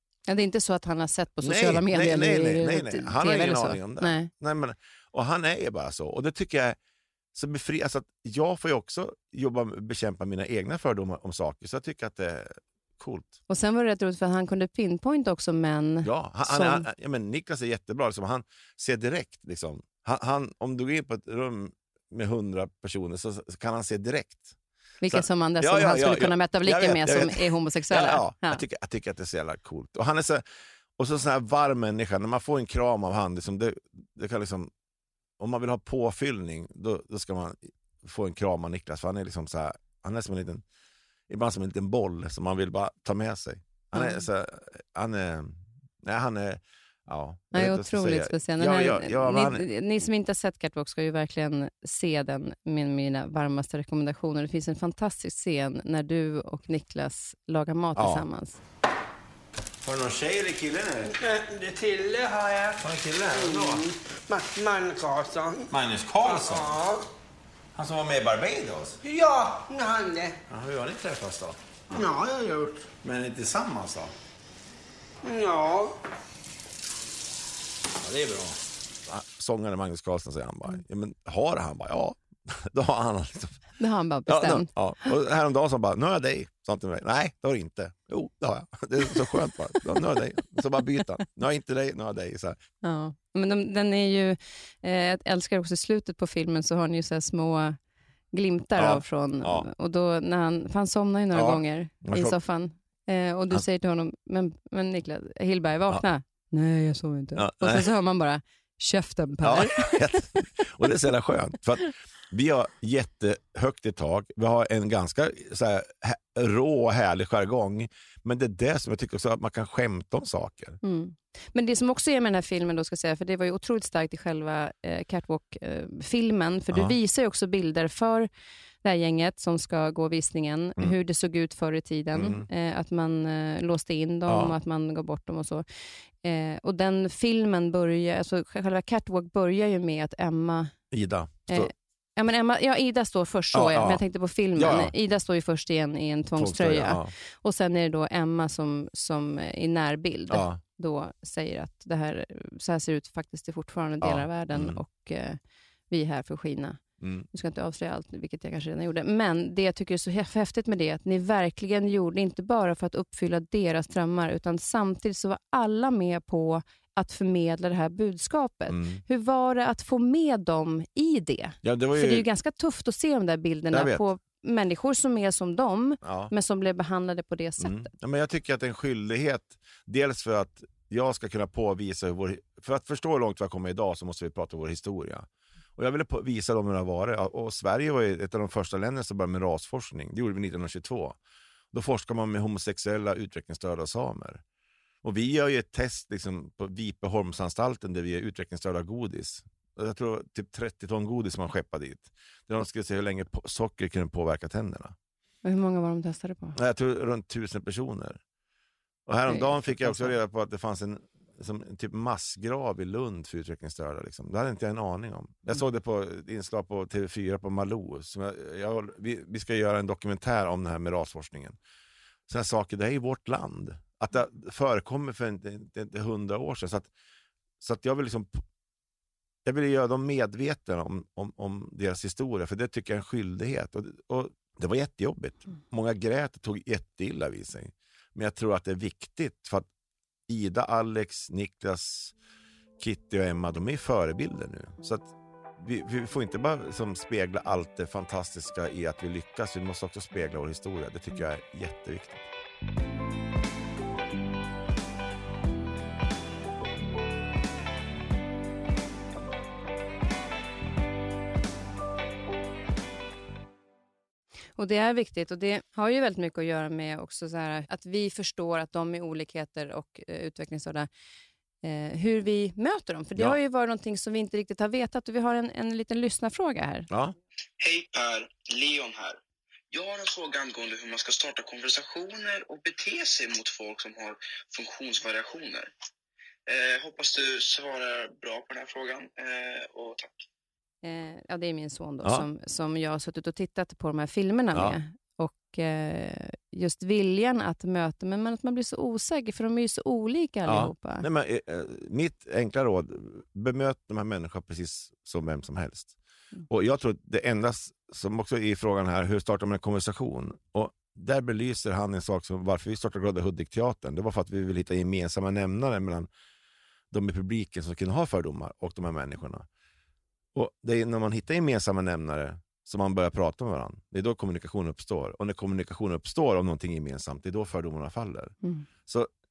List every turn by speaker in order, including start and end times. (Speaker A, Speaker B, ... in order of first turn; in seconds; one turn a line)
Speaker A: 0.3-4.3
Speaker B: 1.4-6.8
Speaker B: 7.3-13.3
Speaker A: 13.5-16.9
Speaker B: 16.0-24.6
Speaker A: 25.0-28.6
Speaker B: 25.1-30.4
Speaker B: 31.0-34.7
Speaker B: 35.4-40.6
Speaker B: 41.3-49.6
Speaker A: 43.9-44.2
Speaker A: 47.5-58.6
Speaker B: 58.0-58.2
Speaker B: 59.8-61.1
Speaker C: 61.0-65.7
Speaker B: 62.8-63.9
Speaker B: 65.7-66.7
Speaker C: 66.2-67.1
Speaker B: 67.8-69.0
Speaker C: 69.0-70.4
Speaker B: 70.5-72.1
Speaker C: 71.9-72.9
Speaker B: 72.9-74.1
Speaker C: 75.2-76.0
Speaker B: 78.0-83.7
Speaker A: 83.8-84.7
Speaker B: 84.3-92.6
Speaker A: 92.8-97.8
Speaker A: 98.3-110.5
Speaker B: 98.8-99.7
Speaker B: 101.3-102.4
Speaker B: 107.4-107.9
Speaker B: 109.4-120.8
Speaker A: 120.8-128.3
Speaker A: 128.8-140.8
Speaker B: 132.1-132.5
Speaker B: 134.3-134.6
Speaker B: 140.9-141.7
Speaker A: 141.5-177.9
Speaker B: 143.5-144.0
Speaker B: 144.6-144.9
Speaker B: 146.4-147.1
Speaker B: 150.3-150.6
Speaker B: 154.0-154.8
Speaker B: 157.0-157.3
Speaker B: 168.7-169.0
Speaker B: 171.6-172.2
Speaker B: 173.7-174.1
Speaker B: 176.0-176.3
Speaker B: 177.6-191.2
Speaker B: 191.7-194.4
Speaker B: 195.0-204.9
Speaker A: 205.4-206.6
Speaker B: 206.6-208.2
Speaker B: 209.1-221.6
Speaker A: 209.3-210.2
Speaker B: 222.3-226.9
Speaker B: 227.6-228.4
Speaker B: 229.4-239.7
Speaker B: 240.3-242.1
Speaker B: 242.8-252.2
Speaker A: 264.6-270.9
Speaker A: 271.6-276.9
Speaker D: 277.6-279.2
Speaker D: 279.7-285.7
Speaker D: 286.5-290.1
Speaker A: 290.8-301.1
Speaker B: 300.5-305.9
Speaker B: 306.5-316.1
Speaker B: 316.9-319.5
Speaker B: 320.3-328.3